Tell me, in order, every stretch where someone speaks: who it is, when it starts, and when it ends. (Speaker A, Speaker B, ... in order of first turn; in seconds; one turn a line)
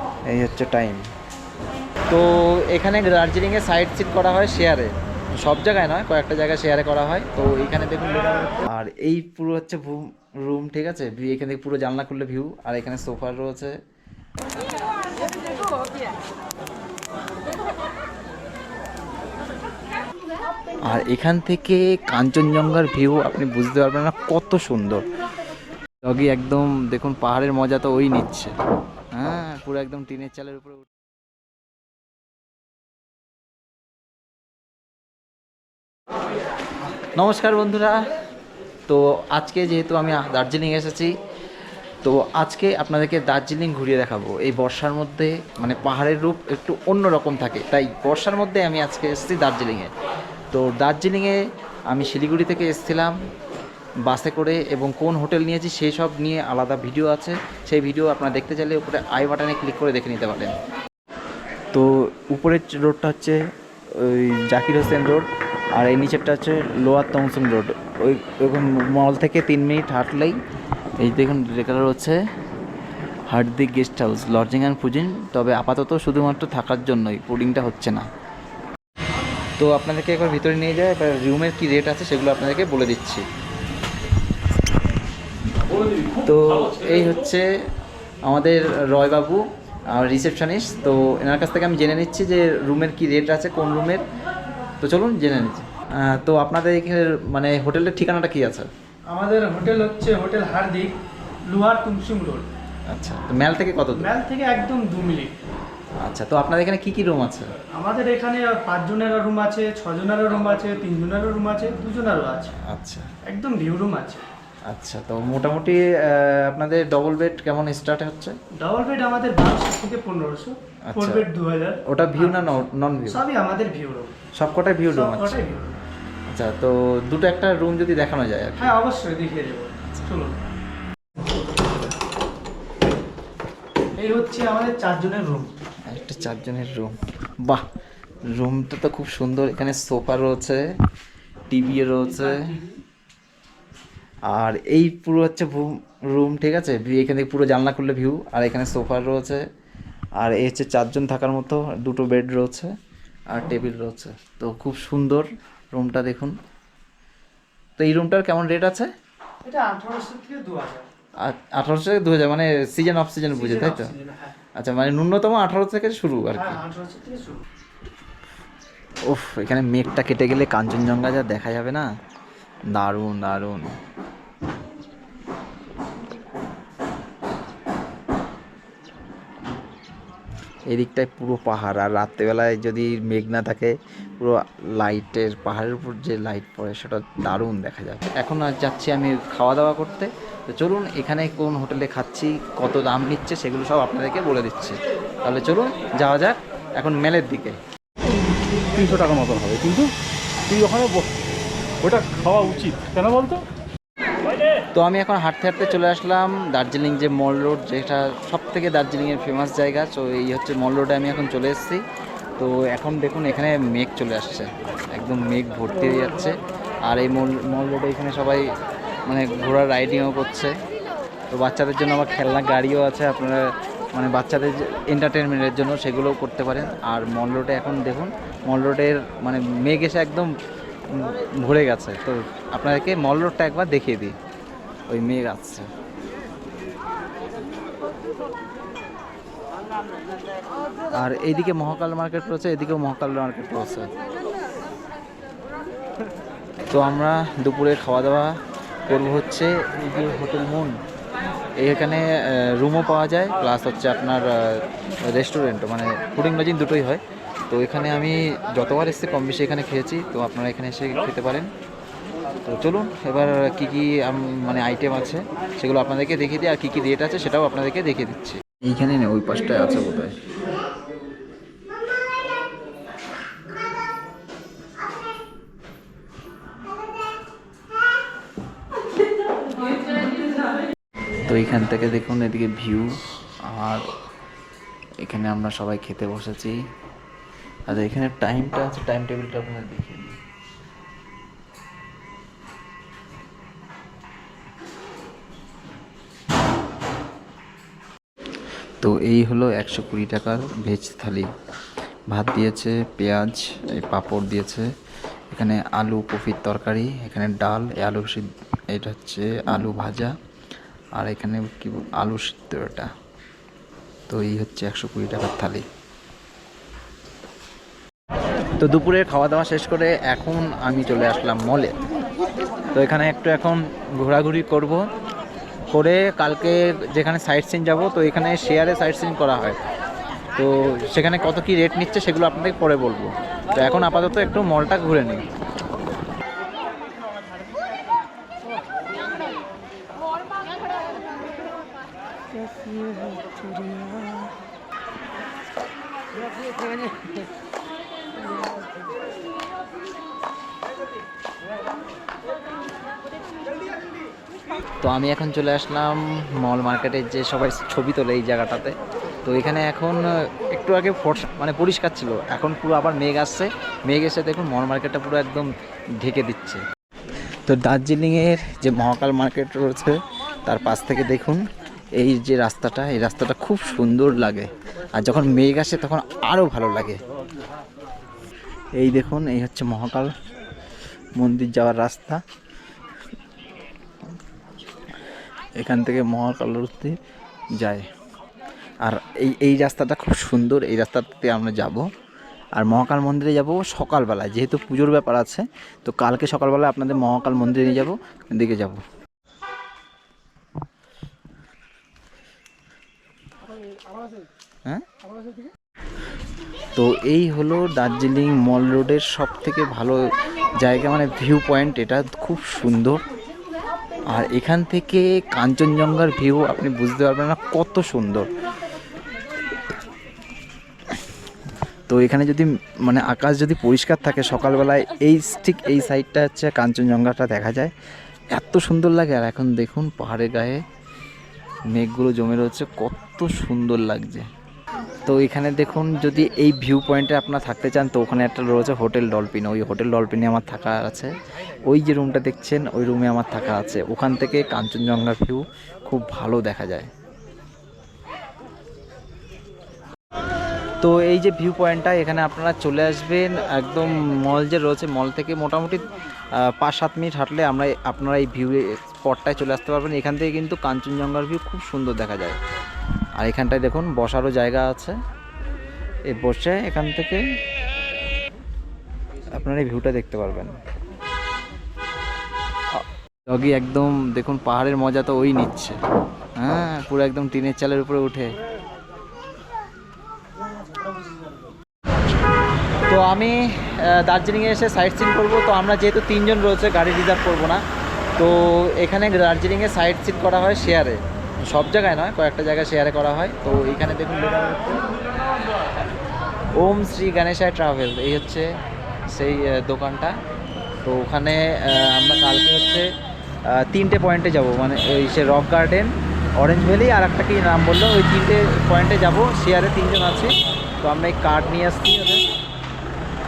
Speaker A: 0.3-1.1
Speaker A: 2.1-13.8
Speaker A: 20.9-25.0
Speaker A: 26.1-28.5
Speaker A: 29.1-30.9
Speaker A: 37.1-38.1
Speaker A: 38.9-41.1
Speaker A: 42.0-49.9
Speaker A: 50.5-51.4
Speaker A: 51.9-53.2
Speaker A: 54.1-60.5
Speaker A: 61.7-63.4
Speaker A: 63.9-70.4
Speaker A: 71.0-72.2
Speaker A: 73.3-78.1
Speaker A: 79.6-83.2
Speaker A: 86.1-87.5
Speaker A: 88.2-94.1
Speaker A: 94.8-98.7
Speaker B: 99.1-101.0
Speaker B: 101.5-102.5
Speaker A: 102.9-104.1
Speaker B: 104.0-105.3
Speaker A: 106.0-107.5
Speaker B: 107.7-112.5
Speaker A: 112.6-113.1
Speaker B: 113.3-114.2
Speaker A: 114.7-118.3
Speaker B: 118.6-122.5
Speaker A: 120.9-121.3
Speaker A: 121.8-123.2
Speaker B: 123.1-124.2
Speaker A: 124.3-125.4
Speaker B: 124.9-125.8
Speaker A: 126.3-128.7
Speaker B: 128.6-130.4
Speaker B: 134.0-135.5
Speaker A: 135.9-137.6
Speaker A: 138.3-140.7
Speaker A: 141.5-142.5
Speaker B: 142.2-142.7
Speaker A: 144.3-149.5
Speaker A: 150.2-152.7
Speaker A: 153.3-156.3
Speaker A: 157.8-158.9
Speaker B: 159.4-160.9
Speaker A: 161.2-163.9
Speaker B: 163.3-164.3
Speaker A: 164.6-166.6
Speaker B: 166.3-167.4
Speaker A: 169.1-171.9
Speaker A: 172.7-173.8
Speaker A: 180.7-197.6
Speaker B: 198.8-199.2
Speaker C: 198.8-199.9
Speaker C: 200.5-201.1
Speaker C: 201.8-203.4
Speaker A: 204.7-211.8
Speaker A: 212.4-218.4
Speaker A: 219.1-220.5
Speaker A: 221.3-230.3
Speaker A: 230.9-234.2
Speaker A: 234.9-235.7
Speaker A: 240.9-243.9
Speaker A: 246.7-250.8
Speaker A: 251.6-261.5
Speaker A: 262.5-270.1
Speaker A: 281.3-283.9
Speaker A: 285.0-286.6
Speaker A: 287.7-290.2
Speaker A: 298.8-301.3
Speaker A: 302.1-304.7
Speaker A: 305.3-310.1
Speaker A: 311.0-312.9
Speaker A: 314.1-315.7
Speaker A: 318.6-321.8
Speaker A: 322.8-324.9
Speaker A: 325.7-329.6
Speaker A: 330.4-335.3
Speaker A: 354.8-366.6
Speaker A: 367.5-371.4
Speaker A: 372.0-377.0
Speaker A: 378.8-380.1
Speaker A: 381.2-382.2
Speaker A: 385.6-387.0
Speaker A: 387.6-387.9
Speaker A: 388.8-391.9
Speaker A: 392.6-398.8
Speaker A: 406.8-413.0
Speaker A: 414.1-418.3
Speaker A: 421.9-427.7
Speaker A: 428.3-430.6
Speaker A: 431.7-434.3
Speaker A: 435.1-446.9
Speaker A: 450.8-462.4
Speaker A: 463.2-465.0
Speaker A: 466.1-467.2
Speaker A: 469.4-470.6
Speaker A: 472.7-475.8
Speaker A: 476.4-478.4
Speaker A: 482.9-487.6
Speaker A: 488.2-494.9
Speaker A: 496.6-498.5
Speaker A: 499.1-500.1
Speaker A: 500.8-502.9
Speaker A: 503.5-512.2